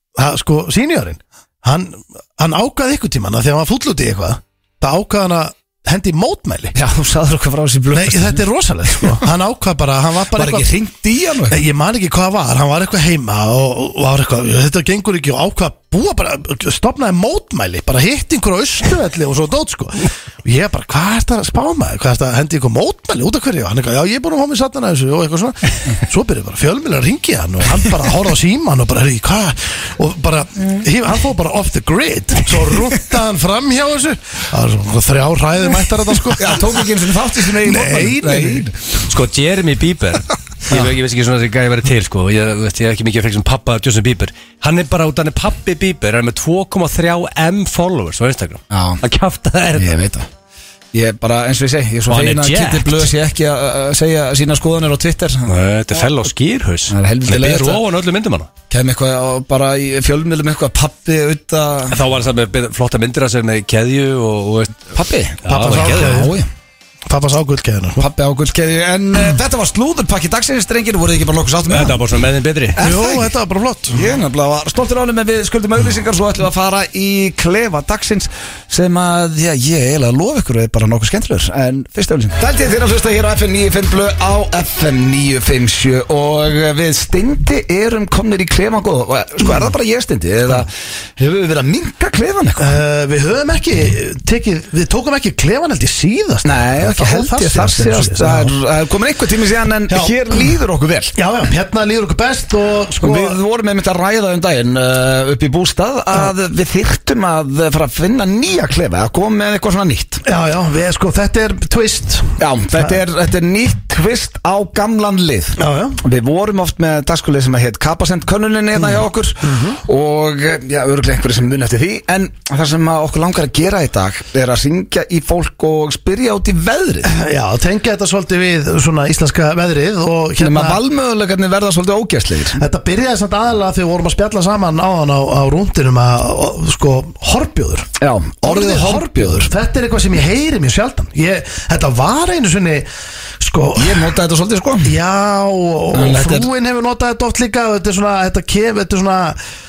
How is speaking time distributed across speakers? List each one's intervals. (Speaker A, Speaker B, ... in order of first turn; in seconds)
Speaker A: 0.1-6.7, 7.9-10.7, 11.5-36.8, 37.4-38.7, 65.5-66.3, 67.1-68.0, 72.8-74.1, 92.6-98.5, 99.9-100.2, 101.1-103.4, 110.2-113.0, 115.6-116.0, 118.9-119.8, 127.0-130.8, 132.6-137.9, 138.4-142.9, 143.4-144.1, 144.8-149.4
Speaker B: 6.7-8.4, 10.3-11.6, 36.4-38.8, 48.7-49.0, 49.8-50.3, 50.9-56.0, 56.9-57.8, 58.7-62.0, 64.9-66.5, 68.0-72.0, 72.7-73.3, 73.9-92.8, 96.4-101.2, 103.0-110.2, 112.4-127.1, 130.4-132.6, 138.0-139.5, 143.8-144.9, 145.9-146.5
Speaker C: 39.0-50.0, 52.1-53.1, 55.5-58.5, 61.9-66.2, 71.7-72.8